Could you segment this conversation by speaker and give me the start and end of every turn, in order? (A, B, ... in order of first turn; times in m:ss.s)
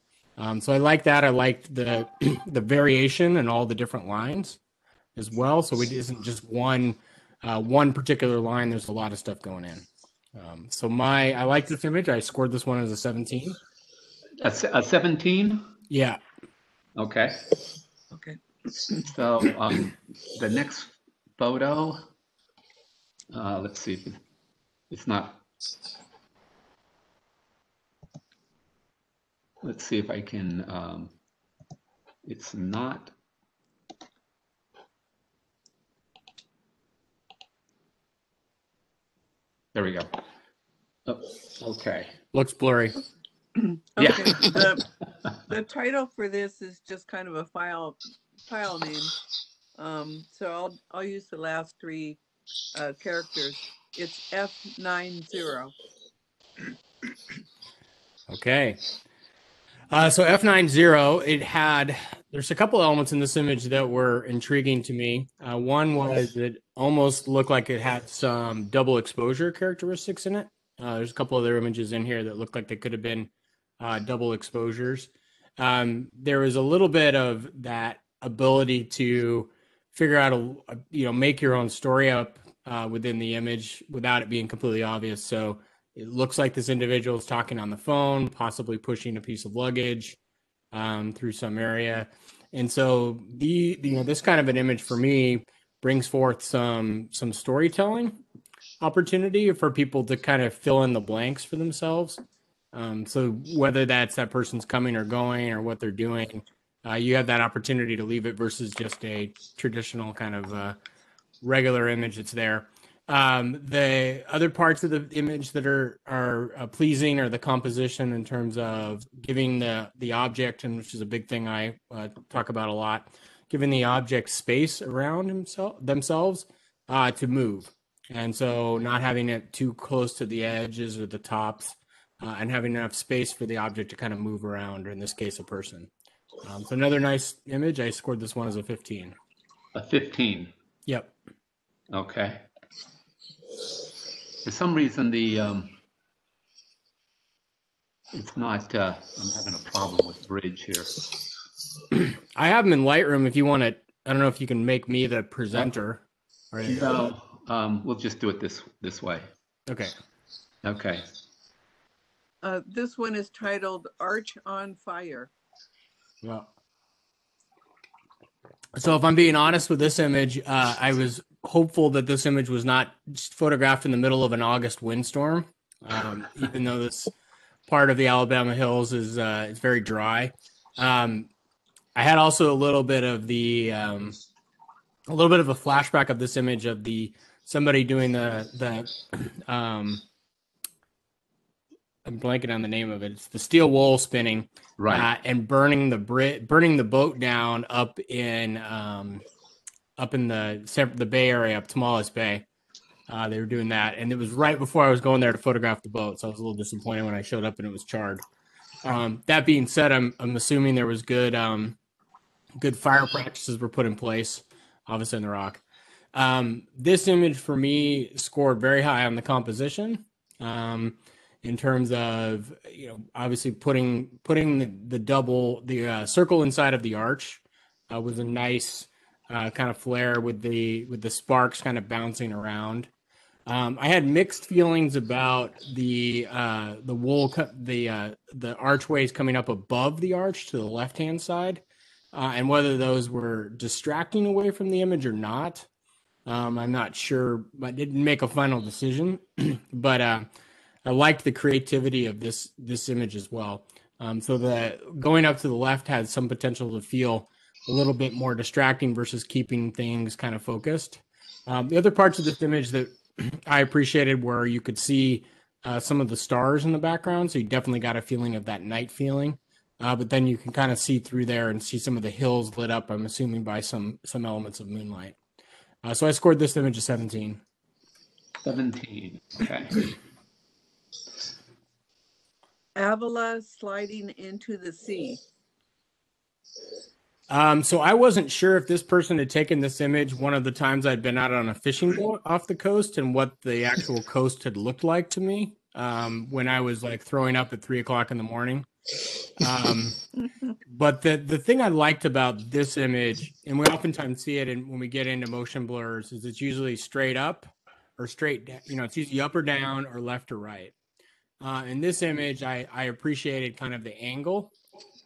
0:00.4-0:04.6 A
0:05.2-0:13.6 A
0:14.4-0:15.7 B
0:15.9-0:16.2 A
0:17.0-0:17.4 B
0:18.1-0:18.4 C
0:19.0-0:22.1 B
0:23.3-0:24.2 B
0:24.9-0:25.4 B
0:29.6-0:31.1 B
0:32.2-0:33.1 B
0:39.7-0:40.1 B
0:41.1-0:42.1 B
0:42.3-0:43.0 A
0:44.0-0:44.8 C
0:44.0-0:44.6 B
0:45.5-0:49.1 C
0:49.8-0:52.2 C
0:52.7-0:55.7 C
0:58.3-0:58.8 A
0:59.9-1:30.2 A
1:30.7-1:38.2 A
1:38.8-1:42.2 A
1:42.7-1:50.8 A
1:51.4-2:15.9 A
2:16.4-2:19.2 A
2:19.7-2:20.5 B
2:20.8-2:21.1 A
2:21.9-2:22.4 B
2:24.4-2:25.8 B
2:28.1-2:31.0 B
2:31.9-2:37.0 A
2:36.6-2:39.2 B
2:39.7-2:39.9 A
2:40.6-2:41.0 B
2:42.4-2:45.3 C
2:46.2-2:46.5 A
2:48.7-2:57.1 A
2:57.7-3:01.3 A
3:01.9-3:04.2 A
3:05.1-3:10.0 A
3:12.0-3:19.2 A
3:14.8-3:15.1 B
3:20.0-3:22.4 A
3:23.1-3:28.2 A
3:28.8-3:31.8 A
3:32.6-3:35.6 A
3:36.1-3:52.9 A
3:53.4-4:05.7 A
4:06.2-4:10.3 A
4:10.8-4:35.2 A
4:35.8-4:37.4 A
4:38.4-4:39.9 B
4:42.8-4:45.2 C
4:47.3-4:58.6 A
4:59.4-5:00.0 A
5:00.7-5:10.7 A
5:11.4-5:14.5 A